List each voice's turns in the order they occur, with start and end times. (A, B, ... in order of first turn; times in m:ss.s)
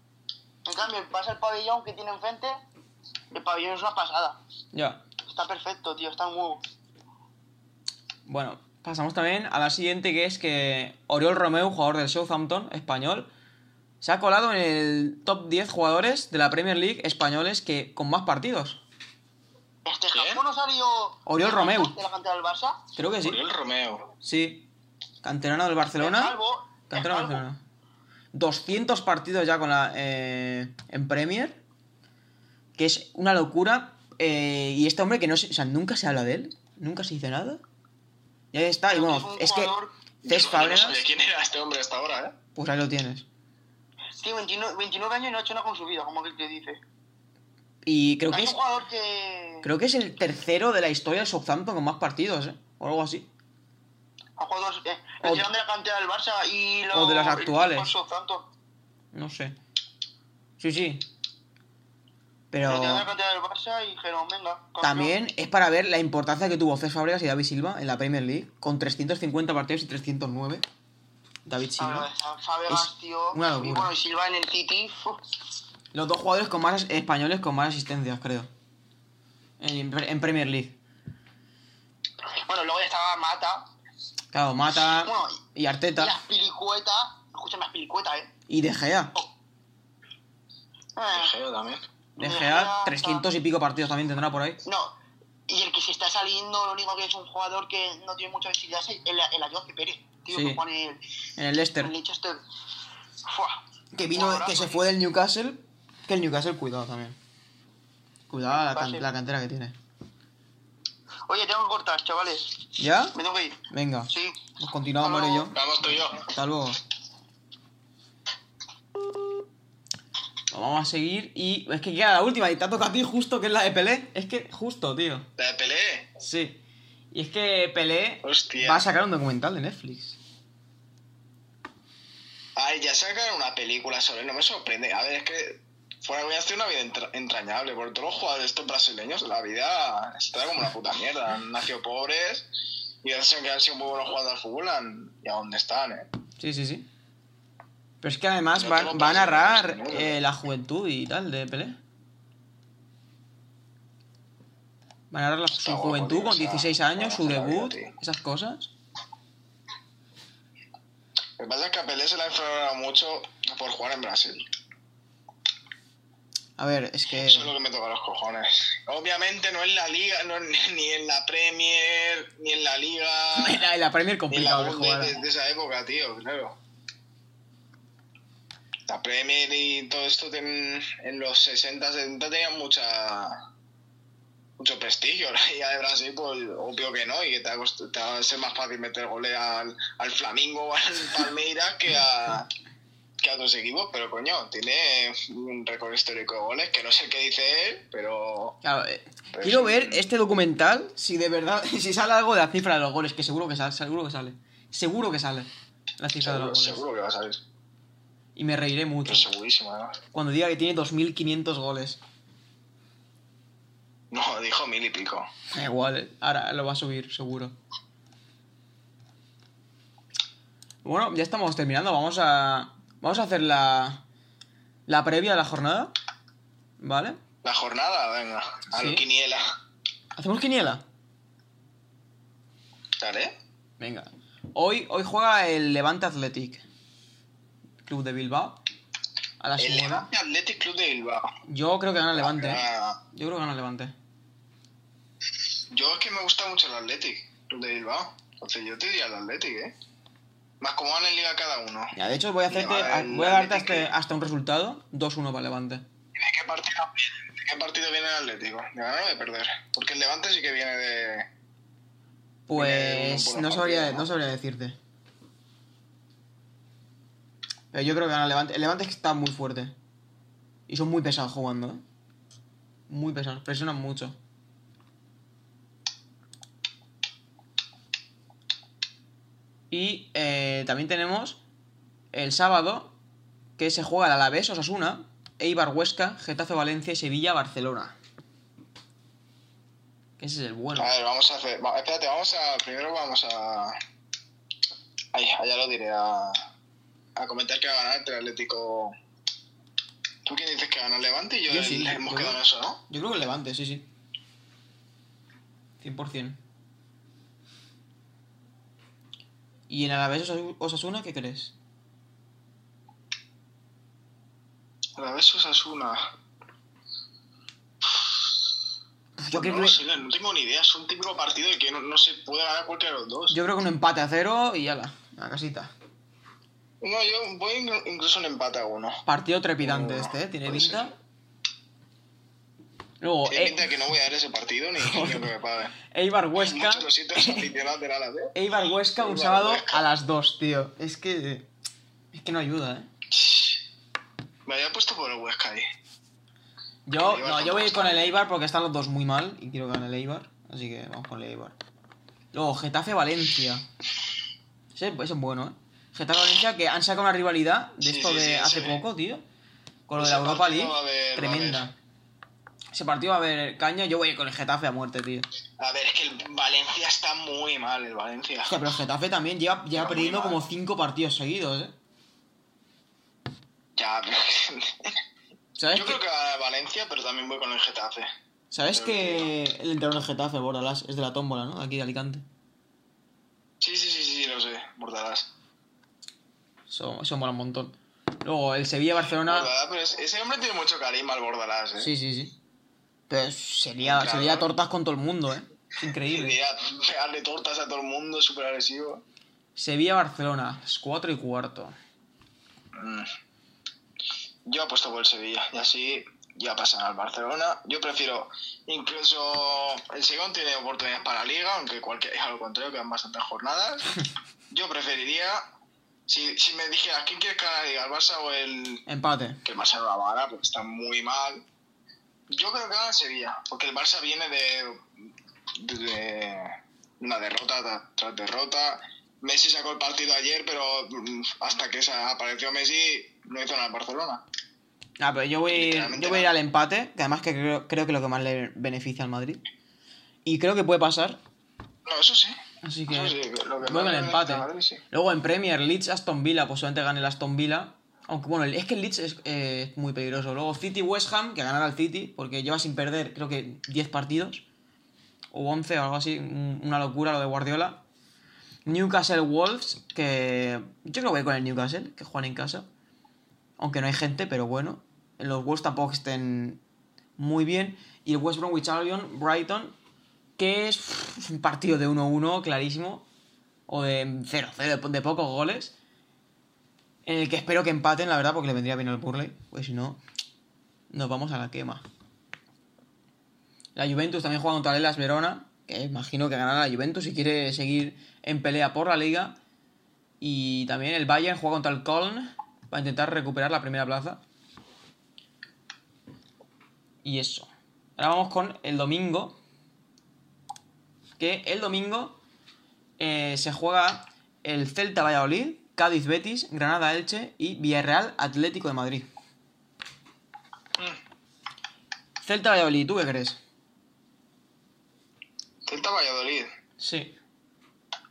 0:00.6-0:02.6 A
0:03.3-0:04.4 A
0:04.7-0:05.0 B
0:05.3-0:06.6 A
0:08.2-0:13.3 B
0:14.0-0:18.8 B
0:19.8-0:22.8 A
0:20.1-0:20.4 C
0:21.2-0:21.9 B
0:23.0-0:23.4 B
0:23.2-0:24.1 C
0:24.2-0:24.7 B
0:25.2-0:26.4 B
0:26.0-0:27.4 A
0:26.9-0:27.6 B
0:28.3-0:31.6 B
0:32.8-0:37.6 B
0:38.5-0:41.0 B
0:38.9-0:39.9 A
0:40.2-0:42.3 C
0:42.6-0:43.2 B
0:44.2-0:46.8 A
0:47.8-0:48.6 B
0:48.3-0:49.7 A
0:49.6-0:53.3 B
0:54.4-0:58.5 A
0:56.9-0:57.9 B
0:59.1-0:59.6 B
1:00.6-1:01.0 B
1:02.5-1:03.1 B
1:02.6-1:05.1 A
1:04.8-1:10.6 B
1:11.4-1:12.1 B
1:11.8-1:15.2 A
1:12.7-1:13.9 B
1:15.9-1:18.5 B
1:19.6-1:20.7 B
1:22.4-1:23.7 A
1:24.3-1:26.2 B
1:24.8-1:25.4 A
1:26.0-1:28.3 A
1:28.5-1:29.1 B
1:31.0-1:31.3 A
1:31.1-1:31.8 C
1:32.2-1:34.6 B
1:32.2-1:33.2 A
1:34.6-1:34.9 A
1:35.5-1:41.0 A
1:40.3-1:40.6 B
1:41.4-1:41.9 B
1:41.8-1:42.4 A
1:43.2-1:43.6 A
1:43.9-1:47.2 B
1:44.1-1:44.8 A
1:48.3-1:49.8 B
1:48.5-1:49.1 A
1:51.3-1:52.6 A
1:52.8-1:53.2 B
1:53.1-1:54.4 A
1:53.7-1:56.8 B
1:55.0-1:55.5 A
1:55.5-1:56.3 C
2:00.5-2:05.3 B
2:05.4-2:06.1 C
2:06.2-2:06.6 B
2:07.1-2:10.2 B
2:08.2-2:08.9 C
2:12.6-2:22.5 C
2:23.0-2:26.1 C
2:26.4-2:26.9 B
2:28.0-2:31.8 B
2:28.5-2:30.2 C
2:35.1-2:38.7 B
2:35.5-2:37.9 C
2:41.4-2:44.4 C
2:46.6-2:47.5 B
2:47.1-2:53.6 C
2:53.3-2:55.2 B
2:54.3-2:56.6 C
2:58.9-3:03.4 C
3:04.6-3:12.5 C
3:13.2-3:18.6 C
3:18.6-3:26.8 B
3:19.3-3:20.0 C
3:26.2-3:27.4 C
3:28.4-3:29.3 B
3:29.0-3:30.0 C
3:30.1-3:32.0 B
3:34.1-3:35.3 C
3:35.5-3:37.5 B
3:40.8-3:44.0 B
3:44.9-3:45.9 B
3:46.8-3:47.2 B
3:47.4-3:49.4 C
3:48.7-3:49.0 B
3:50.2-3:50.8 B
3:53.0-3:53.3 C
3:53.8-3:56.6 B
3:57.8-3:58.6 B
3:59.4-4:00.1 B
3:59.6-4:01.3 C
4:01.5-4:03.9 B
4:02.2-4:03.0 C
4:05.7-4:09.7 C
4:10.6-4:11.9 C
4:11.9-4:15.8 B
4:12.5-4:13.9 C
4:16.1-4:21.3 C
4:22.5-4:24.8 B
4:22.5-4:24.1 C
4:27.7-4:29.7 B
4:30.7-4:31.8 B
4:32.9-4:34.2 B
4:39.7-4:41.4 B
4:42.1-4:42.9 B
4:43.6-4:48.0 B
4:50.2-4:50.9 B
4:50.8-4:53.8 C
4:55.1-4:56.4 C
4:57.2-4:58.9 C
5:00.2-5:02.8 C
5:01.5-5:03.9 B
5:05.8-5:06.4 B
5:09.7-5:11.5 B
5:15.0-5:16.0 C
5:17.8-5:18.1 C
5:19.2-5:19.8 B
5:19.3-5:23.4 C
5:23.3-5:25.7 B
5:26.8-5:29.0 C
5:29.0-5:30.9 B
5:29.6-5:30.9 C
5:33.0-5:33.7 B
5:33.3-5:35.8 C
5:34.8-5:35.3 B
5:35.8-5:37.4 B
5:36.4-5:38.3 C
5:38.3-5:41.5 B
5:39.0-5:39.8 C
5:42.1-5:42.9 B
5:43.1-5:43.6 C
5:44.4-5:45.6 C
5:46.8-5:51.6 B
5:47.0-5:48.2 C
5:52.3-5:53.6 B
5:54.7-5:59.2 B
5:57.8-5:58.8 C
5:59.9-6:01.7 B
5:59.9-6:01.7 C
6:02.7-6:05.3 B
6:05.6-6:08.5 C
6:08.4-6:11.7 B
6:09.7-6:10.4 C
6:13.8-6:15.0 C
6:15.6-6:16.0 B
6:15.7-6:18.1 C
6:18.5-6:22.2 B
6:18.7-6:19.3 C
6:23.6-6:25.3 C
6:26.7-6:29.5 B
6:29.2-6:31.9 C
6:31.8-6:32.3 B
6:33.1-6:36.4 B
6:33.8-6:34.5 C
6:36.0-6:39.0 C
6:39.6-6:41.8 B
6:42.8-6:43.1 C
6:44.4-6:53.9 C
6:54.5-6:55.4 C
6:56.1-6:58.8 C
6:58.9-6:59.4 B
6:59.4-7:01.4 C
7:02.3-7:04.8 C
7:05.6-7:14.2 C
7:15.0-7:19.4 B
7:15.5-7:16.3 C
7:20.2-7:21.2 B
7:21.8-7:24.8 C
7:22.6-7:34.4 B
7:35.3-7:37.8 B
7:38.6-7:42.7 B
7:43.6-7:46.6 B
7:47.2-7:49.7 B
7:50.4-7:53.0 B
7:53.7-7:55.7 B
7:57.0-8:00.0 B
8:00.9-8:01.8 B
8:03.7-8:09.4 B
8:10.2-8:14.2 B
8:17.0-8:19.4 B
8:21.2-8:22.2 B
8:23.0-8:29.1 B
8:32.2-8:33.4 B
8:35.6-8:36.5 C
8:36.8-8:37.1 B